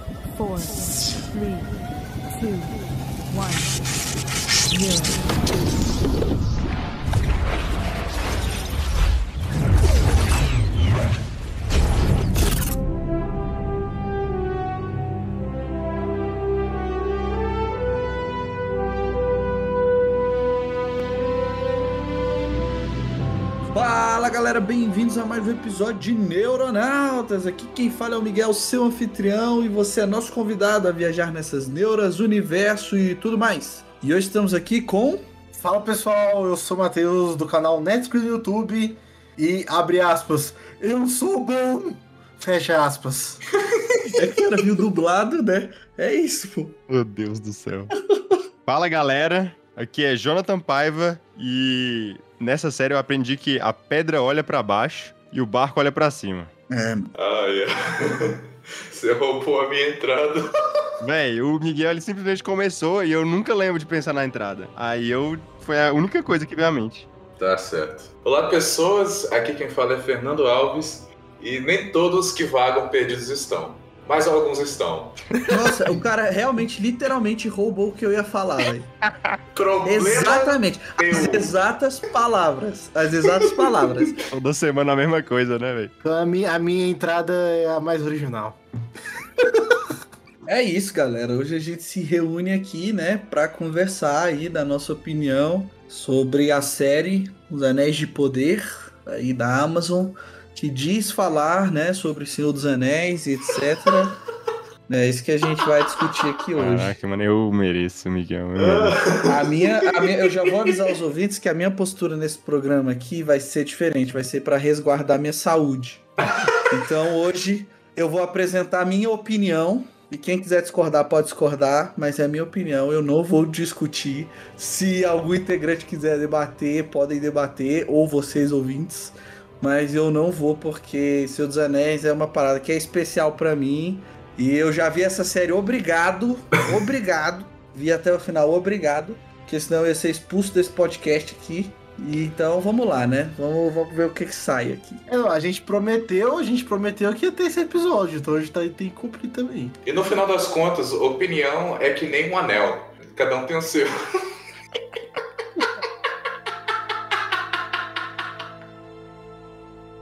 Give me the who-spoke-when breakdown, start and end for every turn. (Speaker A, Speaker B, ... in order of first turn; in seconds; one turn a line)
Speaker A: 0.3-1.7
Speaker A: 2.3-2.7
Speaker A: 3.3-3.8
Speaker A: 4.7-5.3
Speaker B: 23.7-35.3
Speaker C: 35.5-43.4
Speaker B: 44.2-46.8
Speaker D: 46.9-47.9
Speaker D: 48.7-56.5
Speaker B: 56.7-57.1
Speaker E: 57.1-60.5
Speaker D: 61.0-67.1
Speaker E: 67.4-75.5
Speaker B: 75.5-78.9
Speaker E: 79.5-81.6
Speaker B: 79.8-84.2
Speaker E: 83.4-83.8
Speaker D: 84.3-85.9
Speaker C: 86.0-88.6
Speaker B: 90.5-104.2
Speaker B: 104.9-106.9
Speaker D: 106.6-109.0
Speaker E: 108.6-110.7
Speaker B: 109.2-116.1
Speaker E: 116.3-116.6
Speaker B: 116.7-145.0
Speaker C: 145.1-149.8
Speaker E: 149.8-154.0